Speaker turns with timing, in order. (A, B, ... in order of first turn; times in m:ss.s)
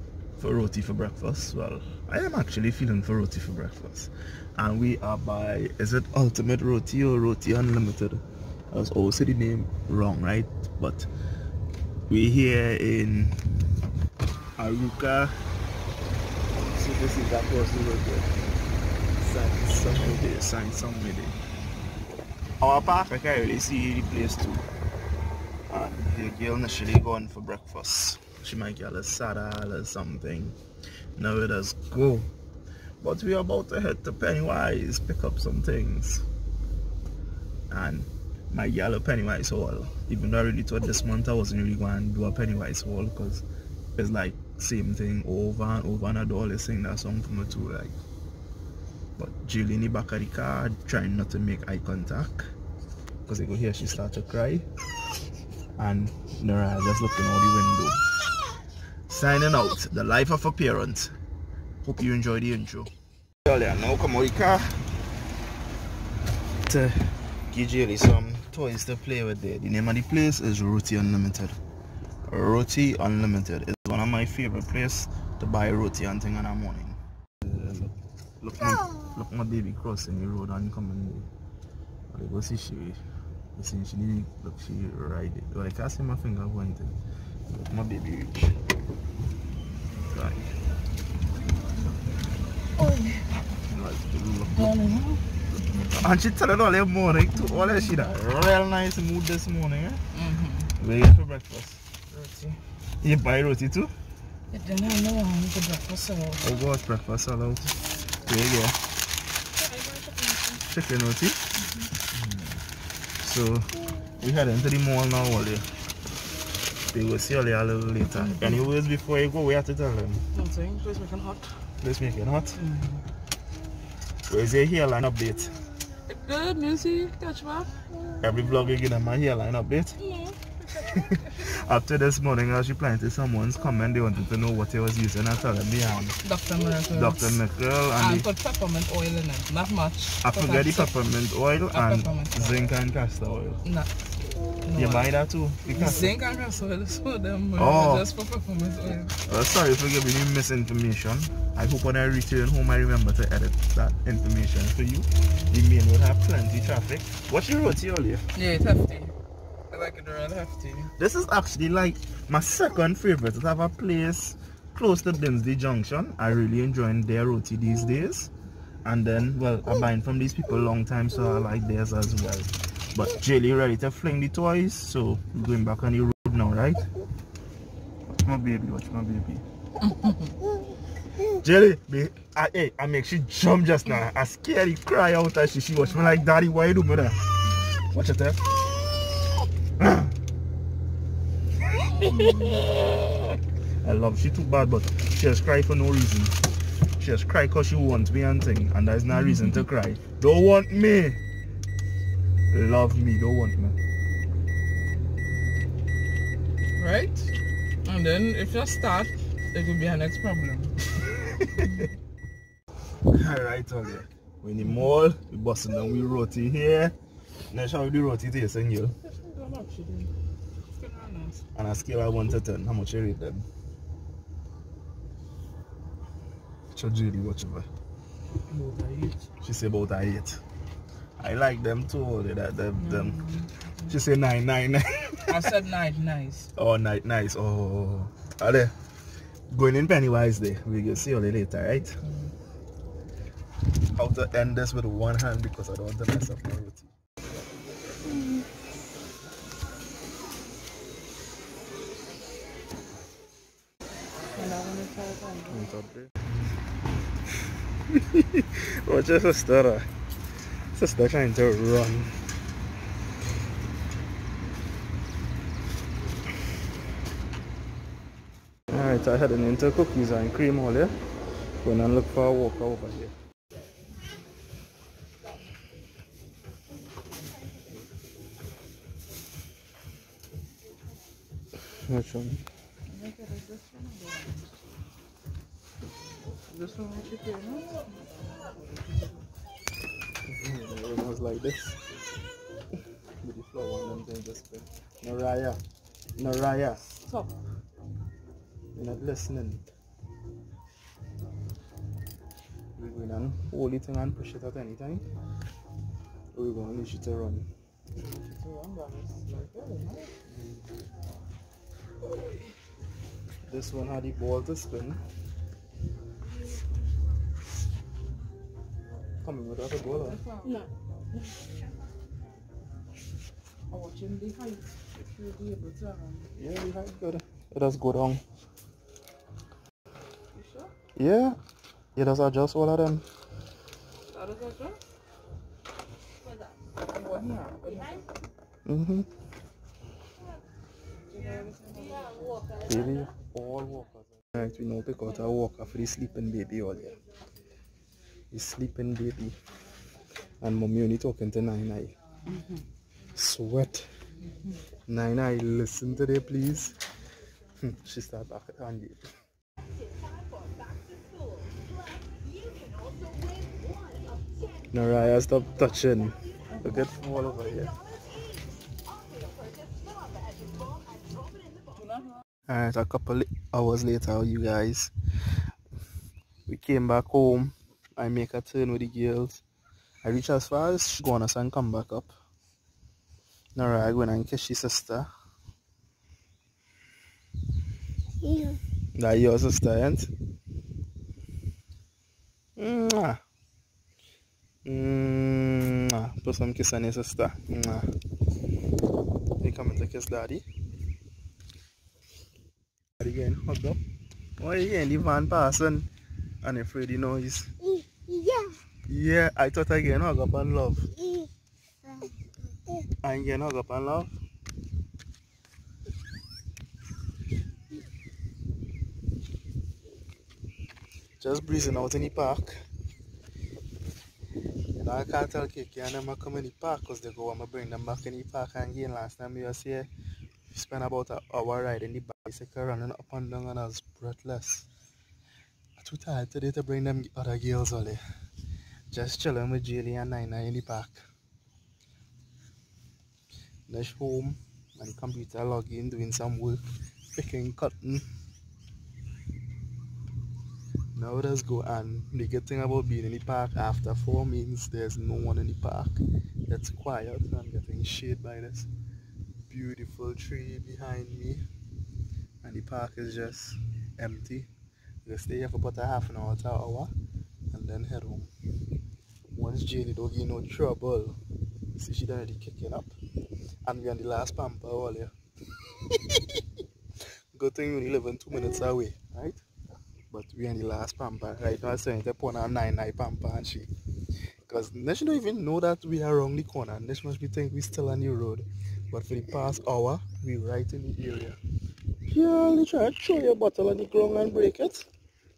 0:00.4-0:11.1 A
0:12.1-0:13.4 A
0:14.6-0:15.3 A
0:16.6-0:18.3 A
0:19.2-0:21.3 A
0:22.6-0:24.6 A
0:25.7-0:30.6 A
0:31.2-0:32.3 A
0:33.0-0:36.2 A
0:37.7-0:43.4 A
0:44.0-0:48.0 A
0:49.2-0:52.5 A
0:53.2-0:54.6 A
0:55.8-0:58.0 A
0:59.1-1:01.1 A
1:01.8-1:02.9 A
1:03.4-1:04.8 A
1:06.6-1:11.6 A
1:12.3-1:21.3 A
1:22.1-1:23.0 A
1:23.5-1:26.9 A
1:27.5-1:28.6 A
1:30.1-1:30.5 A
1:32.8-1:33.3 B
1:33.7-1:34.8 A
1:34.5-1:35.2 B
1:35.8-1:40.0 A
1:40.1-1:40.7 B
1:40.8-1:41.8 A
1:42.1-1:42.6 B
1:43.0-1:43.9 A
1:44.5-1:46.4 B
1:46.4-1:48.8 A
1:49.6-1:50.6 B
1:50.7-1:51.4 A
1:52.1-1:52.6 A
1:53.2-1:55.6 A
1:56.9-2:00.2 A
1:58.2-1:58.6 B
2:00.3-2:01.5 B
2:01.8-2:02.6 A
2:02.6-2:03.0 B
2:04.3-2:05.6 A
2:06.1-2:07.8 B
2:08.2-2:10.0 A
2:10.7-2:16.2 A
2:16.2-2:17.4 B
2:16.9-2:18.3 A
2:18.0-2:20.9 B
2:20.2-2:23.6 A
2:21.7-2:22.7 B
2:23.6-2:23.9 B
2:24.6-2:25.1 B
2:24.8-2:26.1 A
2:25.6-2:29.2 B
2:27.6-2:28.0 A
2:29.2-2:38.2 A
2:38.3-2:39.1 B
2:39.7-2:40.9 B
2:41.0-2:48.3 A
2:48.8-2:56.8 A
2:58.2-2:59.4 A
2:59.9-3:00.3 B
3:01.4-3:08.5 A
3:09.8-3:10.1 A
3:12.0-3:12.7 B
3:12.0-3:12.7 A
3:13.8-3:16.4 A
3:16.9-3:21.2 A
3:19.1-3:19.6 B
3:22.5-3:23.8 A
3:26.8-3:30.8 B
3:31.1-3:31.9 A
3:33.1-3:36.9 A
3:37.5-3:39.0 A
3:39.0-3:40.1 B
3:40.8-3:41.4 B
3:41.5-3:43.4 A
3:46.7-3:47.7 A
3:48.5-3:49.3 B
3:49.4-3:50.4 A
3:51.2-3:53.2 A
3:52.8-3:53.9 B
3:53.8-3:55.5 A
3:55.3-3:56.5 B
3:56.5-3:58.7 A
3:59.5-4:02.0 A
4:03.9-4:06.9 A
4:08.0-4:08.4 B
4:14.3-4:15.7 B
4:15.5-4:16.1 A
4:17.9-4:19.9 A
4:20.7-4:22.2 A
4:28.7-4:31.0 A
4:31.6-4:33.1 A
4:41.8-4:42.4 A
4:42.9-4:44.5 B
4:46.5-4:49.2 B
4:50.2-4:51.8 A
4:53.2-4:55.6 A
4:56.2-4:56.9 A
4:57.0-4:57.3 B
4:58.7-4:59.7 A
5:02.8-5:05.0 A
5:06.3-5:07.5 A
5:08.0-5:10.1 B
5:10.3-5:10.6 A
5:12.1-5:12.4 B
5:13.5-5:15.0 A
5:19.2-5:20.2 A
5:20.0-5:20.7 B
5:23.7-5:26.3 B
5:26.3-5:28.2 A
5:30.3-5:30.7 B
5:30.9-5:31.4 A
5:32.0-5:33.0 A
5:34.1-5:34.8 B
5:36.9-5:38.0 B
5:38.6-5:39.1 A
5:41.1-5:42.0 B
5:42.6-5:47.0 A
5:48.3-5:49.4 A
5:50.4-5:51.9 A
5:52.3-5:52.6 B
5:53.1-5:53.9 A
5:54.9-5:56.8 A
5:57.6-5:59.1 A
6:04.7-6:07.8 A
6:12.5-6:14.9 A
6:16.4-6:19.4 A
6:20.0-6:22.1 A
6:23.6-6:25.1 A
6:28.9-6:30.1 A
6:32.6-6:33.2 A
6:34.6-6:37.9 A
6:39.4-6:40.4 A
6:43.0-6:43.8 A
6:44.4-6:45.9 A
6:46.4-6:47.7 A
6:48.9-6:50.9 A
6:53.0-6:54.1 A
7:01.2-7:02.5 A
7:04.8-7:09.9 A
7:10.5-7:14.7 A
7:15.8-7:18.0 A
7:18.9-7:21.0 A
7:23.7-7:28.0 A
7:30.9-7:38.7 A
7:39.5-7:41.4 A
7:42.4-7:44.5 A
7:45.0-7:46.9 A
7:47.5-7:48.3 A
7:49.3-7:51.2 A
7:51.7-7:52.9 A
7:53.6-7:55.1 A
7:55.8-7:56.4 A
7:57.3-7:59.4 A
8:00.1-8:03.7 A
8:04.4-8:11.4 A
8:12.1-8:14.8 A